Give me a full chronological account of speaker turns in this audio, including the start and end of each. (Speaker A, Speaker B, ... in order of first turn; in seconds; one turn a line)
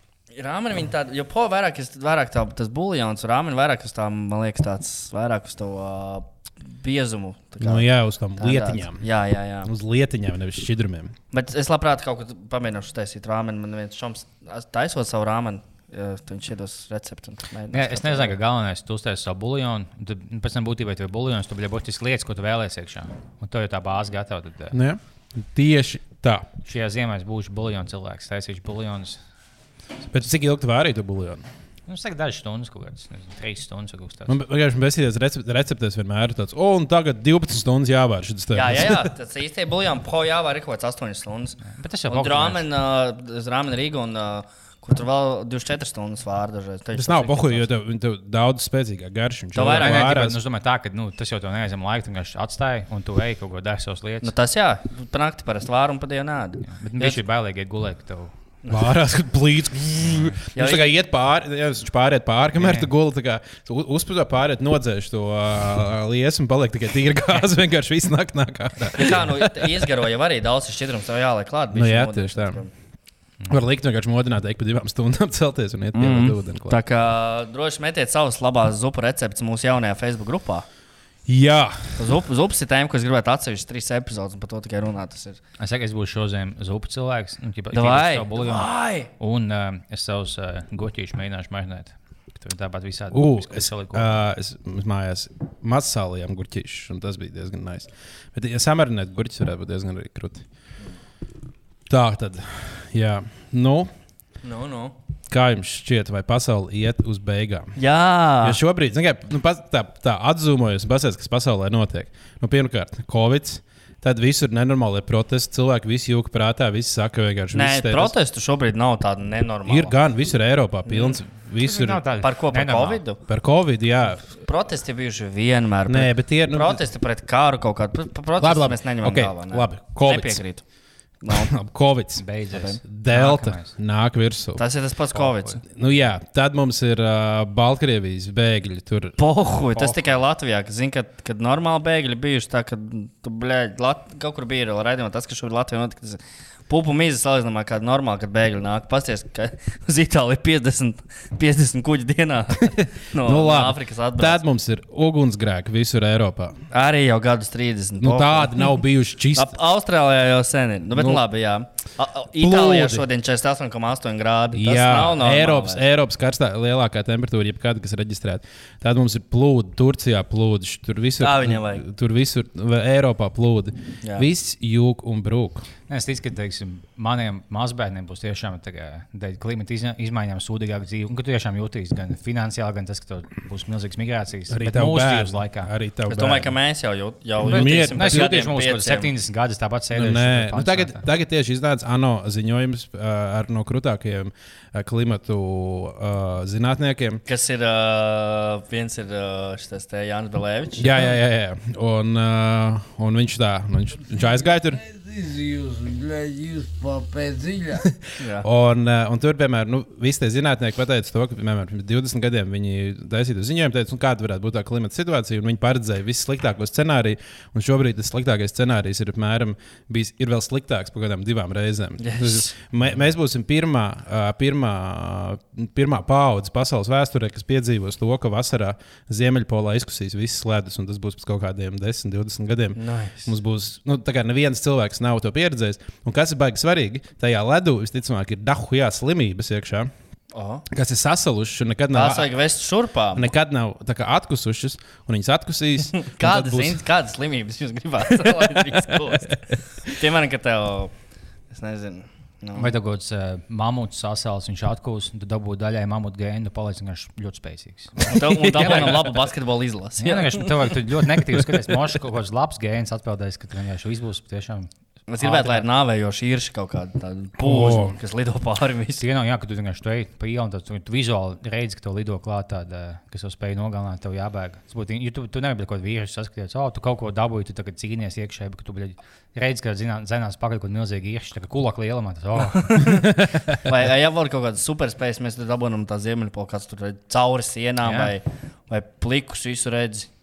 Speaker A: 0.3-9.7
Speaker B: 7.6-9.0
Speaker B: 9.6-11.1
Speaker A: 11.3-18.4
Speaker C: 17.7-24.8
Speaker B: 24.7-26.4
Speaker C: 26.6-29.2
Speaker B: 30.1-31.4
Speaker C: 31.9-34.4
Speaker B: 34.3-39.1
Speaker A: 38.5-47.7
Speaker C: 41.6-42.7
Speaker B: 46.9-50.4
Speaker A: 49.5-50.1
Speaker C: 49.7-54.3
Speaker A: 54.2-57.2
Speaker C: 56.6-58.3
Speaker A: 58.6-58.9
Speaker B: 58.7-69.9
Speaker A: 60.5-61.0
Speaker C: 62.6-62.9
Speaker A: 68.9-72.7
Speaker B: 71.7-72.6
Speaker B: 73.5-76.8
Speaker A: 75.9-80.7
Speaker B: 81.3-82.0
Speaker A: 82.0-85.4
Speaker C: 85.6-94.2
Speaker A: 87.7-89.1
Speaker B: 93.1-100.4
Speaker B: 101.9-103.9
Speaker A: 104.4-104.9
Speaker B: 105.3-107.7
Speaker A: 107.8-108.6
Speaker B: 108.4-118.1
Speaker A: 117.5-119.9
Speaker B: 119.7-122.0
Speaker A: 120.8-121.2
Speaker C: 121.6-123.0
Speaker A: 122.2-123.2
Speaker B: 123.3-124.2
Speaker A: 124.2-130.6
Speaker B: 125.9-126.8
Speaker B: 128.4-130.4
Speaker A: 131.2-131.5
Speaker B: 131.3-132.2
Speaker C: 132.2-133.7
Speaker A: 132.5-132.8
Speaker B: 132.8-134.6
Speaker A: 134.6-135.6
Speaker C: 135.1-135.6
Speaker B: 135.7-139.2
Speaker A: 139.2-154.4
Speaker C: 139.7-140.2
Speaker B: 152.6-156.6
Speaker A: 156.7-158.7
Speaker B: 158.0-159.6
Speaker A: 159.3-165.8
Speaker B: 160.9-161.2
Speaker B: 162.4-163.1
Speaker B: 164.5-175.7
Speaker A: 171.2-171.8
Speaker A: 174.0-174.3
Speaker C: 175.9-185.7
Speaker B: 184.5-186.5
Speaker A: 186.1-189.1
Speaker B: 187.4-188.3
Speaker C: 187.5-191.0
Speaker B: 189.9-197.2
Speaker A: 197.3-201.1
Speaker B: 200.8-204.8
Speaker D: 204.8-207.8
Speaker A: 208.2-208.5
Speaker B: 208.4-239.9
Speaker A: 222.0-222.6
Speaker A: 232.8-233.3
Speaker A: 240.3-240.7
Speaker B: 240.7-242.3
Speaker A: 241.9-243.3
Speaker B: 243.1-246.8
Speaker A: 246.0-250.9
Speaker A: 251.5-252.7
Speaker C: 252.5-259.3
Speaker A: 258.0-260.7
Speaker C: 260.0-265.6
Speaker A: 265.1-269.0
Speaker B: 267.4-267.9
Speaker C: 269.0-282.9
Speaker A: 282.7-283.0
Speaker A: 283.6-290.1
Speaker C: 287.8-288.1